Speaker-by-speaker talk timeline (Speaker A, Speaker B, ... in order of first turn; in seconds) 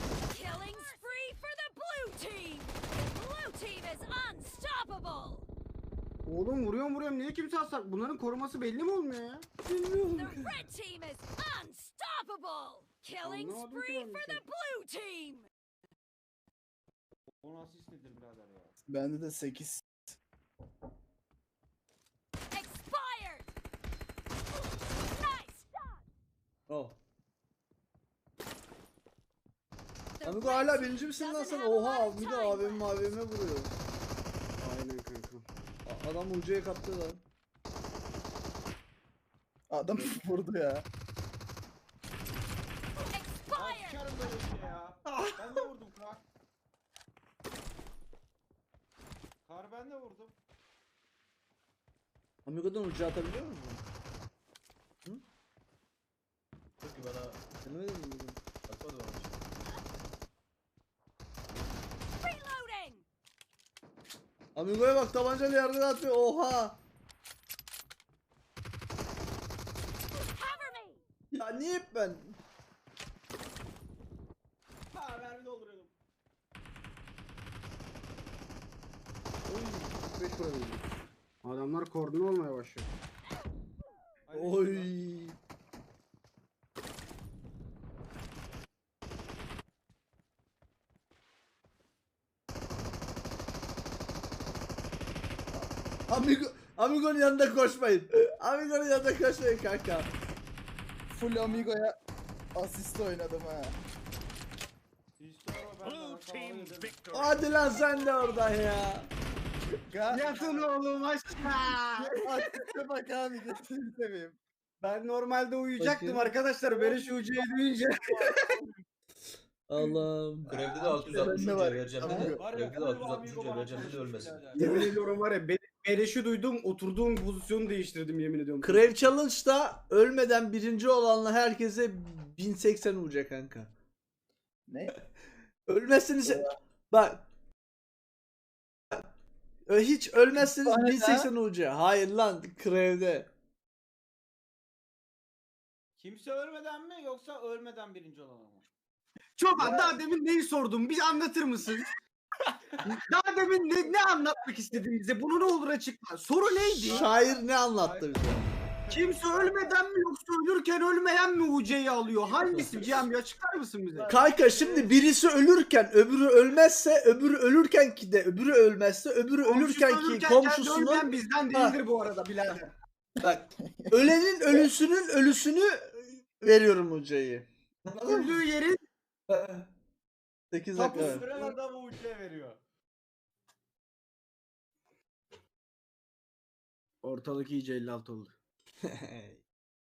Speaker A: 0.3-5.4, 10.1-15.5, 22.5-23.5, 25.0-26.0, 30.2-33.1, 43.1-44.3, 62.2-63.0, 70.2-71.0
Speaker B: 6.2-9.4, 13.2-14.4, 34.6-35.5, 79.5-80.8, 81.4-82.9, 110.1-112.2, 114.8-118.5, 122.0-122.3, 124.6-129.1, 149.4-151.9, 152.9-157.1, 158.9-164.2, 169.4-172.7, 177.9-178.8, 180.9-181.5, 187.0-188.3
Speaker C: 9.6-10.6, 26.7-27.0, 30.2-33.8, 35.8-37.2, 52.5-53.8, 57.6-58.4, 64.5-66.8, 71.3-72.4, 84.3-85.4, 95.5-100.1, 107.1-109.1, 115.8-116.3, 119.7-120.7, 121.2-121.5, 128.6-133.7, 135.7-137.2, 139.7-143.3, 156.9-158.6, 164.1-171.8, 173.2-178.4, 179.3-179.7, 180.5-181.3, 188.8-189.4
Speaker D: 17.4-18.8, 43.5-46.2, 49.4-50.4, 74.9-75.9, 84.2-85.0, 101.4-101.7, 105.2-107.1, 110.3-110.7, 116.8-117.1, 118.1-118.8, 122.3-124.7, 146.0-148.7, 156.8-159.4, 163.9-164.8, 180.8-182.6
Speaker E: 18.9-20.1, 39.7-40.9, 101.1-101.9, 102.5-103.8, 109.9-110.3, 112.0-114.4, 120.7-122.4, 134.7-134.9, 136.3-136.5, 140.4-141.3, 149.6-149.9, 173.6-174.7
Speaker F: 56.8-57.4, 58.7-59.3, 120.5-124.8